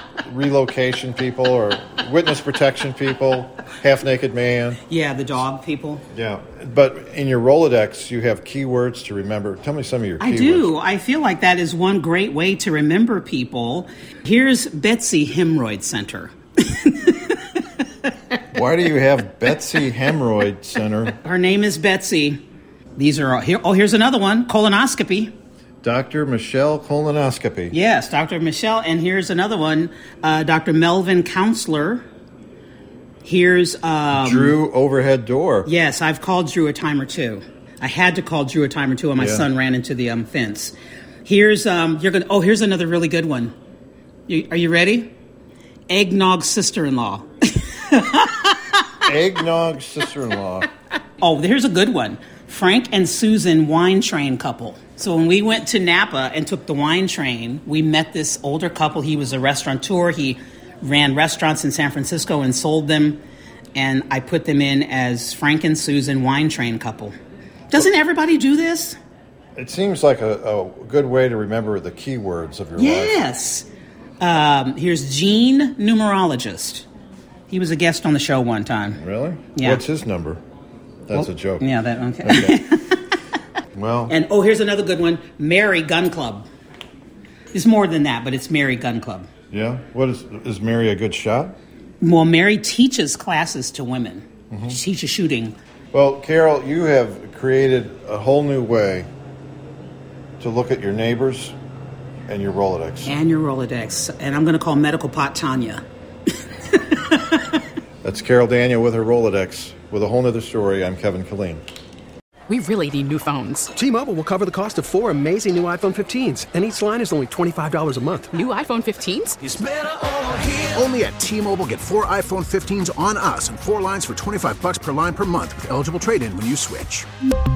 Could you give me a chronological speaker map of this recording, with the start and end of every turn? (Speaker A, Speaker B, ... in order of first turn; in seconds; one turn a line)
Speaker A: 0.2-4.8
Speaker B: 4.9-6.0
Speaker A: 6.1-10.7
Speaker B: 10.2-18.1
Speaker A: 18.5-21.1
Speaker B: 21.2-22.4
Speaker B: 23.0-25.3
Speaker A: 25.8-27.8
Speaker B: 27.7-32.0
Speaker B: 33.2-34.6
Speaker A: 34.1-35.7
Speaker B: 35.6-40.7
Speaker A: 39.2-39.5
Speaker B: 41.2-43.5
Speaker B: 44.3-45.1
Speaker B: 45.9-48.9
Speaker A: 49.0-50.7
Speaker B: 51.2-63.2
Speaker B: 63.7-67.1
Speaker B: 67.7-69.0
Speaker A: 69.5-73.2
Speaker B: 72.8-73.7
Speaker B: 74.2-76.8
Speaker B: 77.5-79.0
Speaker A: 79.0-80.4
Speaker B: 79.5-79.8
Speaker A: 81.1-81.7
Speaker B: 81.1-83.1
Speaker A: 82.2-82.6
Speaker A: 83.7-84.1
Speaker B: 84.1-86.5
Speaker B: 87.5-89.3
Speaker A: 89.5-91.5
Speaker B: 92.0-95.5
Speaker A: 94.5-94.8
Speaker A: 95.9-99.1
Speaker A: 100.4-101.5
Speaker A: 102.3-103.1
Speaker B: 103.0-105.8
Speaker B: 106.7-107.6
Speaker A: 108.0-111.6
Speaker C: 112.5-113.7
Speaker D: 113.8-118.3
Speaker C: 118.3-119.4
Speaker E: 119.4-127.1